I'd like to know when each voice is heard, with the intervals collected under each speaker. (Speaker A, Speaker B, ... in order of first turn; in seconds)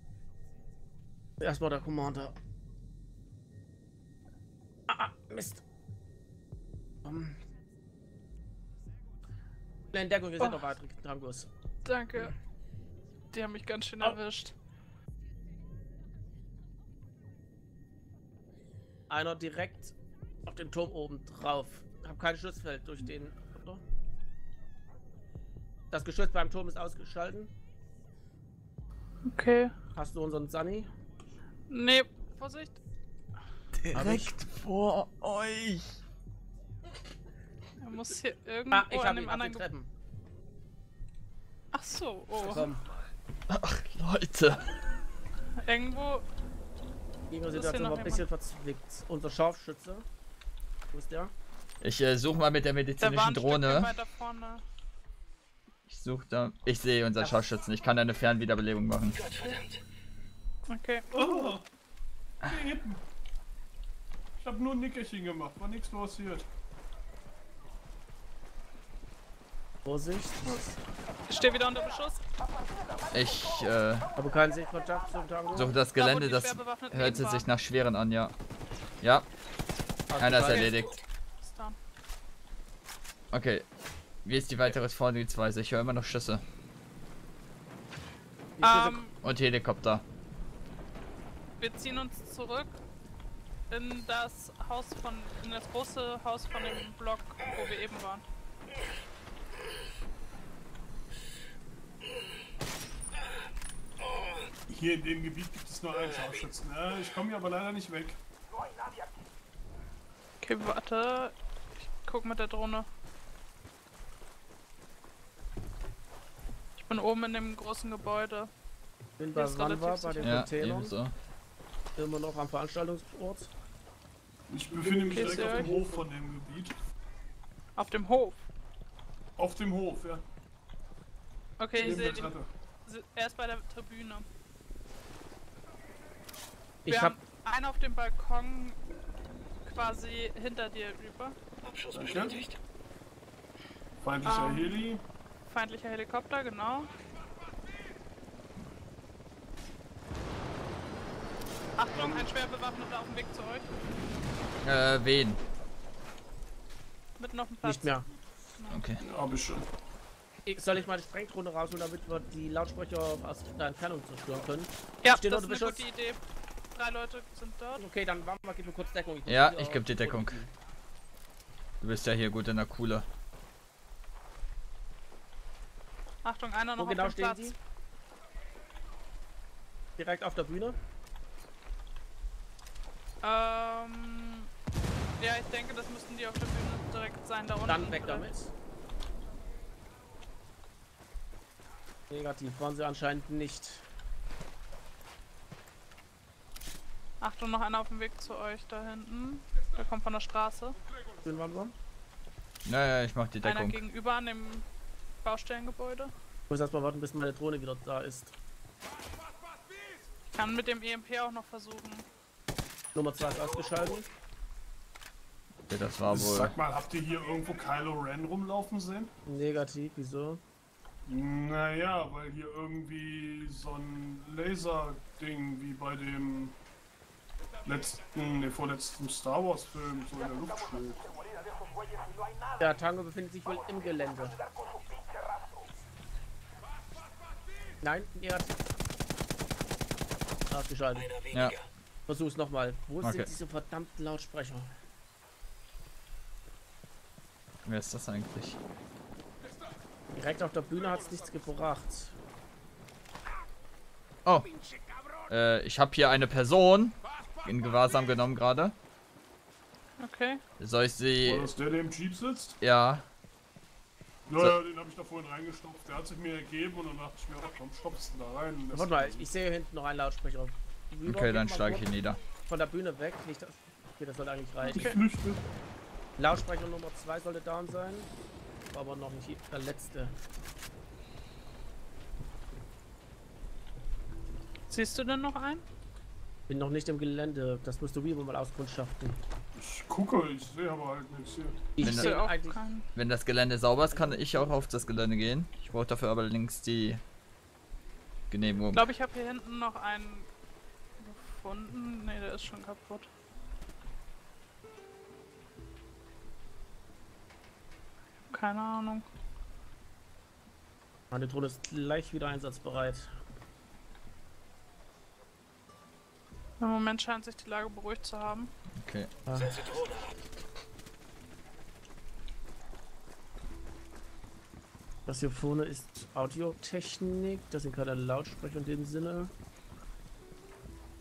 Speaker A: 1.4-2.4, 4.9-5.6, 7.0-7.4, 9.9-11.5, 19.1-19.9, 20.5-23.8, 25.9-27.5, 29.9-30.9, 33.9-34.3, 38.7-39.9, 42.4-42.8, 47.3-50.0, 50.9-51.3, 69.8-70.4, 74.2-75.7, 80.1-80.7, 88.6-89.0, 119.2-120.9, 122.0-123.5, 124.8-126.0, 136.8-137.2, 151.9-152.2, 157.6-158.0, 160.4-165.8, 167.8-170.5, 176.8-177.5, 180.0-180.8, 187.7-188.5, 192.1-193.8, 201.2-201.7, 206.5-208.3, 212.9-214.1, 219.2-220.4, 232.6-234.4, 237.8-238.5, 240.5-241.1, 242.1-244.7, 250.1-252.1, 268.7-271.9, 272.5-274.9, 276.2-278.1, 278.7-280.1, 286.5-289.2, 291.8-292.6, 293.9-294.2, 311.1-313.1, 319.3-319.6, 325.1-329.3
Speaker B: 11.8-12.3, 13.3-14.5, 29.2-29.7, 31.7-32.8, 37.8-39.6, 41.7-42.7, 45.6-46.2, 47.5-48.2, 53.0-54.6, 60.7-61.5, 71.3-72.2, 75.9-77.5, 80.4-80.7, 81.4-81.8, 88.6-89.1, 91.6-92.8, 93.7-98.2, 110.4-112.9, 116.8-118.5, 119.3-120.4, 125.0-125.7, 127.8-128.5, 131.6-134.2, 136.8-138.8, 139.6-141.3, 144.2-144.8, 145.5-146.9, 151.8-153.7, 157.2-157.9, 165.0-166.2, 166.7-167.8, 176.2-177.6, 183.2-184.5, 185.2-188.3, 197.2-200.8, 203.4-204.6, 205.2-206.1, 210.3-212.0, 260.0-260.4, 274.6-275.0, 284.7-285.6, 291.8-292.9, 298.7-300.3, 301.0-303.1, 308.3-309.1, 316.6-318.5
Speaker C: 33.8-36.0, 43.5-44.8, 51.8-53.9, 55.9-59.2, 73.1-74.1, 75.5-78.3, 79.0-79.2, 80.2-81.0, 83.3-83.7, 84.2-86.4, 89.2-90.0, 120.2-121.1, 154.6-155.4, 158.7-159.0, 169.3-170.4, 171.8-173.1, 202.6-203.8, 215.7-216.6, 243.0-243.3, 247.6-248.6, 255.3-258.7, 260.6-261.5, 262.6-263.0, 271.1-272.2, 291.8-292.2, 292.9-297.0, 298.3-298.9, 318.7-319.1
Speaker D: 59.1-59.8, 104.0-104.5, 106.2-106.4, 141.6-142.6, 240.9-241.7, 319.3-320.2
Speaker E: 61.1-61.6, 62.4-63.0, 64.4-66.5, 70.4-70.8, 104.7-108.2, 124.5-126.7, 129.4-130.2, 131.7-132.5, 141.9-142.4, 144.0-145.0, 159.0-159.7, 216.1-219.1, 221.1-226.6, 227.7-231.0, 261.2-262.6, 264.3-269.3, 274.7-275.4, 289.6-291.6